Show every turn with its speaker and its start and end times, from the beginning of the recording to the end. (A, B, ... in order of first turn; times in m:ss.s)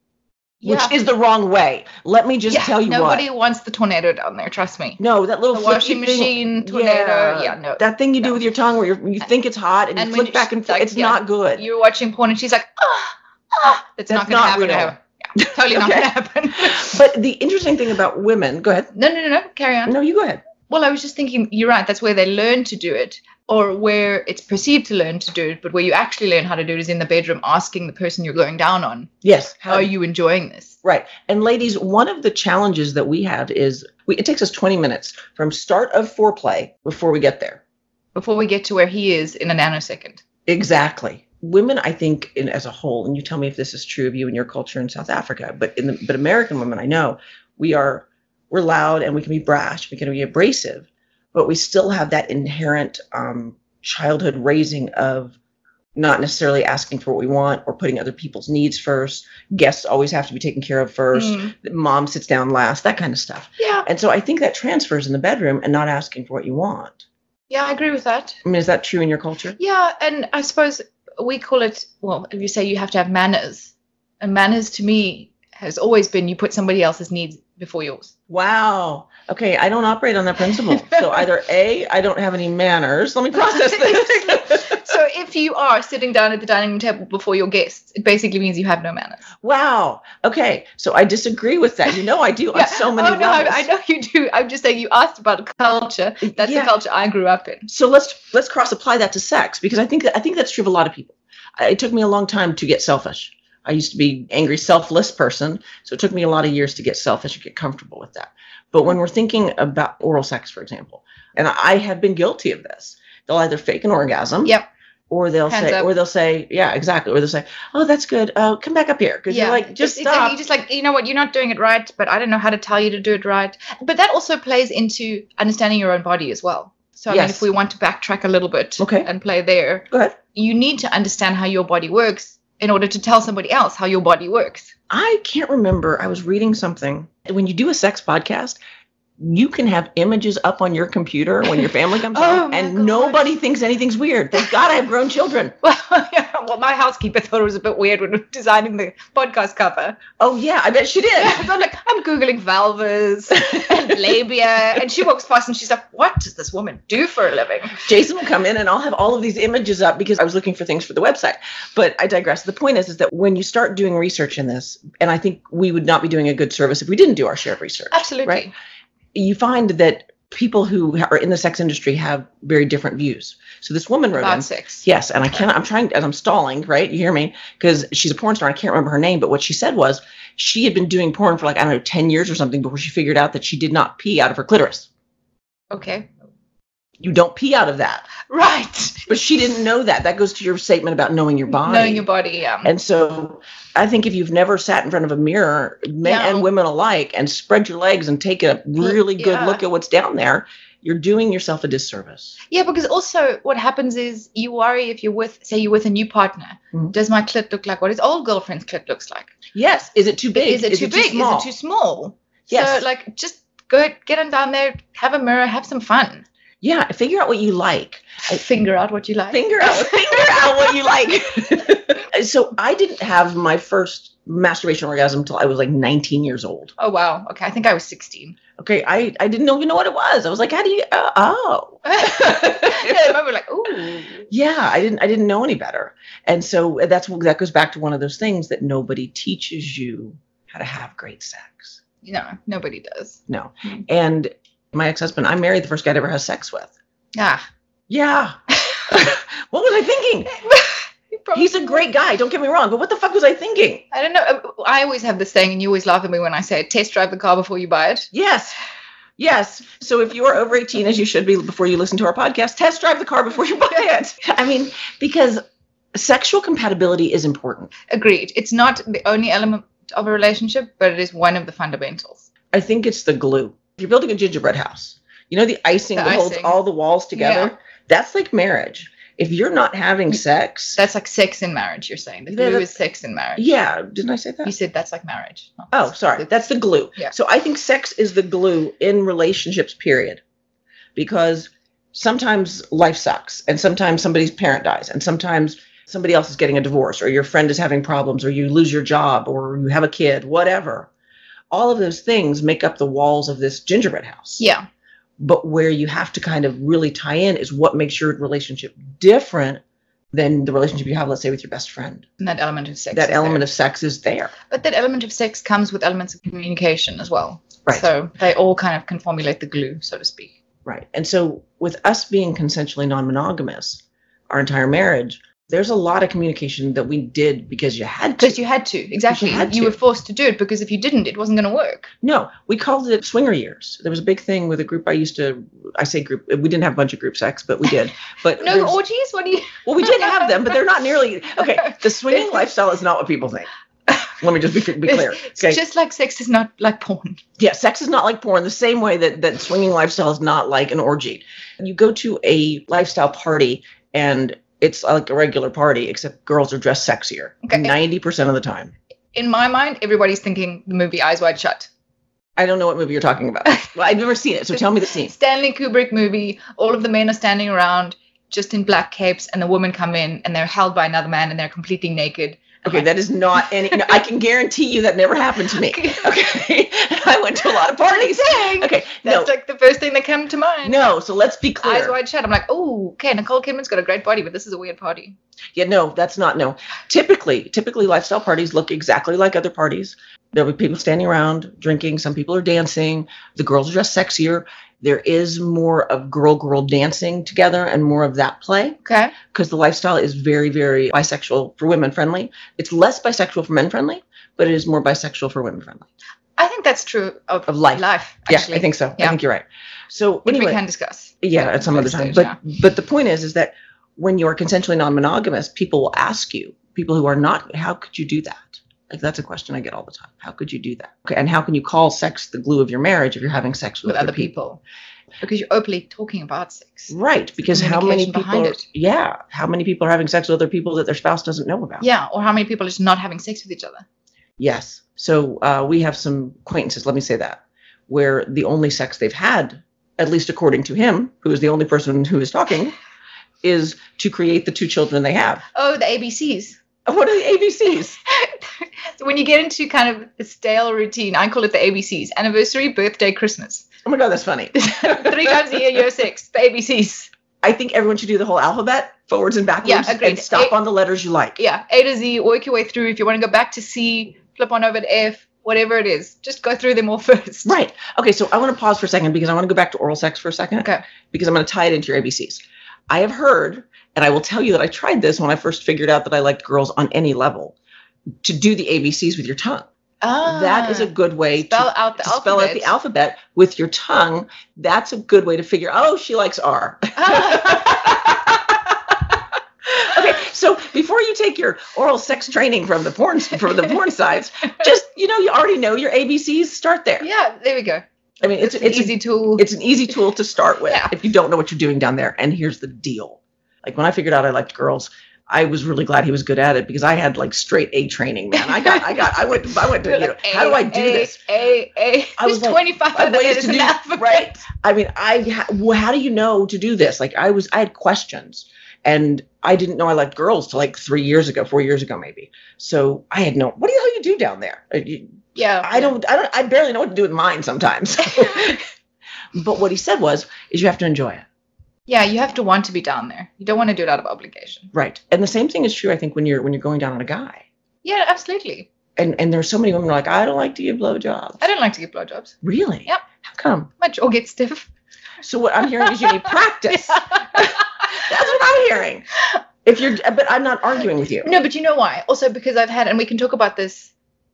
0:00.6-0:00.9 A
0:00.6-0:03.2 B
0:02.5-0:05.0 A
0:05.0-0:11.6 B
0:05.5-0:08.4 A
0:10.0-0:17.0 A
0:13.6-0:18.9 B
0:18.9-0:20.0 A
0:19.9-0:20.4 B
0:20.6-0:29.1 A
0:29.2-0:29.9 B
0:29.7-0:30.8 A
0:30.8-0:37.6 B
0:38.1-0:40.2 A
0:40.5-0:55.4 B
0:55.9-1:07.0 B
1:01.1-1:01.5 A
1:03.6-1:03.9 A
1:07.5-1:08.4 A
1:08.4-1:09.6 B
1:09.6-1:18.1 A
1:18.3-1:24.8 B
1:20.8-1:21.0 A
1:23.3-1:29.2 A
1:29.4-1:33.7 B
1:32.5-1:37.7 A
1:36.2-1:36.8 B
1:37.7-1:54.5 B
1:55.1-2:00.4 B
1:55.5-1:55.9 A
1:59.3-2:14.7 A
2:07.1-2:07.5 B
2:08.8-2:09.1 B
2:09.9-2:10.2 B
2:14.9-2:18.6 B
2:19.2-2:25.5 B
2:22.1-2:23.2 A
2:25.6-2:30.0 A
2:30.2-2:31.5 B
2:31.2-2:37.9 A
2:33.6-2:34.1 B
2:37.8-2:48.5 B
2:47.9-2:48.5 A
2:49.1-3:04.9 B
2:54.2-2:54.8 A
3:05.7-3:06.1 A
3:07.0-3:08.1 B
3:08.2-3:09.1 A
3:09.1-3:12.0 B
3:11.5-3:12.7 A
3:12.6-3:22.4 B
3:16.0-3:16.5 A
3:18.8-3:19.6 A
3:22.5-3:29.3 A
3:29.5-3:31.5 B
3:30.4-3:36.2 A
3:32.5-3:32.8 B
3:36.6-3:38.4 B
3:38.3-3:40.7 A
3:39.3-3:46.7 B
3:46.8-3:48.4 A
3:48.6-3:53.2 B
3:51.8-3:54.3 A
3:54.3-4:01.8 B
4:02.0-4:03.2 A
4:03.3-4:06.7 B
4:07.1-4:07.4 A
4:07.9-4:10.3 B
4:10.4-4:11.8 A
4:11.3-4:13.8 B
4:13.9-4:18.1 A
4:18.1-4:18.5 B
4:19.2-4:25.4 B
4:25.9-4:27.7 B
4:27.9-4:32.3 A
4:32.5-4:40.8 B
4:36.0-4:36.6 A
4:37.2-4:37.5 A
4:40.8-4:43.5 A
4:42.3-4:42.7 B
4:43.4-4:44.5 B
4:44.4-4:46.2 A
4:45.7-4:50.2 B
4:51.0-5:00.9 B
5:01.5-5:04.4 B
5:04.4-5:04.7 A
5:05.2-5:09.6 B
5:10.1-5:12.0 B
5:12.2-5:13.5 A
5:12.9-5:14.3 B
5:14.5-5:20.3 A
5:20.6-5:28.4 B
5:28.2-5:31.9 A
5:29.1-5:29.8 B
5:32.0-5:38.8 B
5:38.4-5:40.6 A
5:39.6-5:43.5 B
5:41.6-5:42.3 A
5:44.2-5:45.6 B
5:44.8-5:47.2 A
5:47.4-5:58.7 B
5:57.4-5:57.8 A
5:59.1-6:01.7 A
6:02.4-6:05.1 B
6:05.0-6:12.9 A
6:12.6-6:19.3 B
6:15.7-6:16.1 A
6:17.9-6:20.9 A
6:20.6-6:22.0 B
6:21.6-6:25.2 A
6:25.5-6:38.8 B
6:38.8-6:39.2 A
6:39.3-6:45.8 B
6:46.4-6:49.2 A
6:47.5-6:50.6 B
6:50.2-6:52.4 A
6:51.2-7:04.3 B
7:03.8-7:04.6 A
7:05.2-7:06.9 A
7:06.9-7:11.8 B
7:07.5-7:08.6 A
7:11.8-7:13.8 A
7:14.4-7:22.8 B
7:23.4-7:25.4 B
7:25.5-7:26.6 A
7:26.8-7:28.0 B
7:28.1-7:33.7 A
7:33.8-7:35.4 B
7:34.5-7:37.1 A
7:37.4-7:41.4 B
7:39.6-7:40.6 A
7:41.4-7:47.5 A
7:47.4-7:57.5 B
7:58.2-7:59.7 B
8:00.0-8:02.7 A
8:00.2-8:08.9 B
8:07.0-8:07.9 A
8:09.7-8:17.0 B
8:17.0-8:19.5 A
8:18.2-8:31.2 B
8:28.4-8:29.0 A
8:29.8-8:34.3 A
8:32.2-8:48.6 B
8:45.3-8:45.9 A
8:49.3-8:51.2 B
8:51.9-8:54.7 A
8:54.7-8:57.4 B
8:57.8-8:58.7 A
8:59.0-9:01.4 B
9:01.4-9:02.3 A
9:02.4-9:03.7 B
9:03.8-9:04.7 A
9:05.2-9:09.0 B
9:05.8-9:07.6 A
9:09.6-9:11.3 B
9:11.2-9:13.9 A